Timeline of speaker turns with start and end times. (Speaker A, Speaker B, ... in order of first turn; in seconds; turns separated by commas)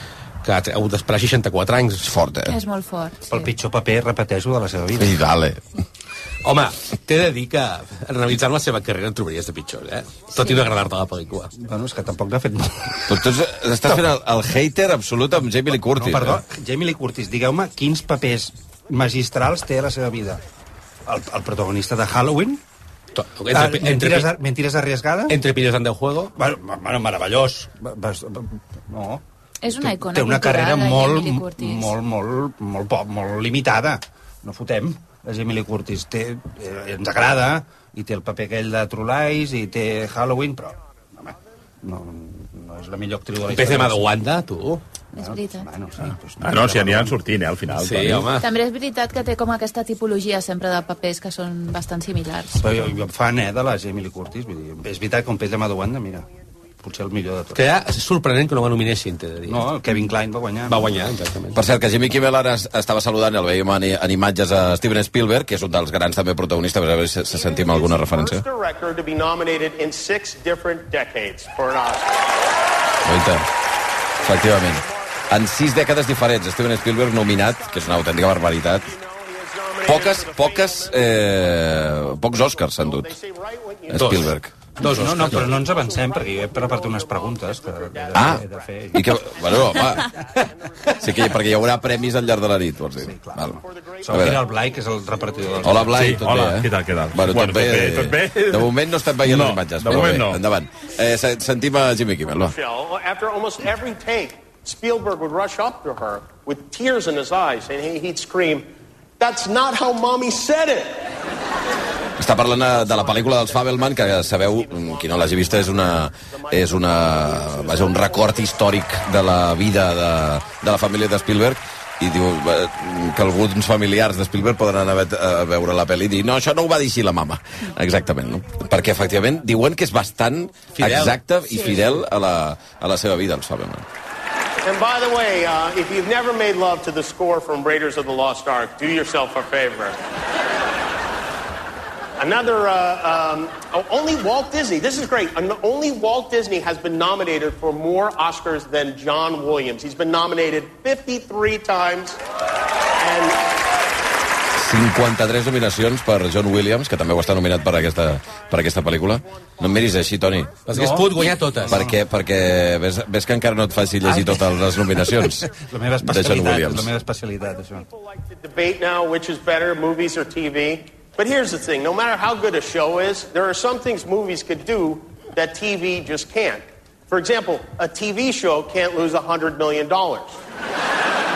Speaker A: 0.4-2.1, Speaker B: 2.0-2.5, Speaker C: 2.5-3.5, Speaker D: 3.3-5.2, Speaker B: 5.0-5.6, Speaker A: 6.4-11.5, Speaker C: 10.3-10.7, Speaker D: 11.5-13.2, Speaker B: 13.1-16.4, Speaker D: 15.8-20.4, Speaker D: 21.1-22.6, Speaker A: 23.1-24.3, Speaker D: 23.5-25.4, Speaker A: 25.3-26.3, Speaker D: 26.3-29.2, Speaker C: 29.6-31.9, Speaker D: 29.8-44.1, Speaker A: 43.5-44.8, Speaker C: 45.1-45.7, Speaker D: 45.1-47.2, Speaker E: 46.4-48.3, Speaker A: 47.7-48.5, Speaker C: 48.4-52.6, Speaker D: 52.5-56.3, Speaker D: 56.8-57.6, Speaker A: 57.5-59.7, Speaker D: 59.5-60.9, Speaker A: 60.6-61.6, Speaker B: 61.5-68.5, Speaker F: 67.3-72.1, Speaker B: 73.0-73.5, Speaker F: 74.2-75.3, Speaker B: 74.2-78.9, Speaker F: 77.4-84.3, Speaker B: 79.8-83.1, Speaker B: 83.9-84.5, Speaker A: 83.9-85.6, Speaker D: 84.8-89.2, Speaker F: 85.5-92.5, Speaker B: 88.1-90.1, Speaker B: 91.0-94.5, Speaker D: 93.0-96.0, Speaker F: 93.5-95.8, Speaker B: 95.6-102.5, Speaker E: 95.9-98.7, Speaker E: 99.2-100.4, Speaker F: 102.4-108.7, Speaker F: 109.2-111.1, Speaker B: 112.2-133.8, Speaker F: 112.5-118.8, Speaker F: 120.7-121.0, Speaker F: 128.8-129.3, Speaker A: 130.7-131.8, Speaker F: 134.6-139.9, Speaker F: 142.2-152.2, Speaker F: 153.0-153.4, Speaker B: 154.6-160.5, Speaker F: 159.6-160.5, Speaker A: 160.6-161.8, Speaker D: 160.7-162.0, Speaker B: 161.7-165.5, Speaker D: 164.0-167.9, Speaker B: 166.0-166.9, Speaker F: 167.5-180.3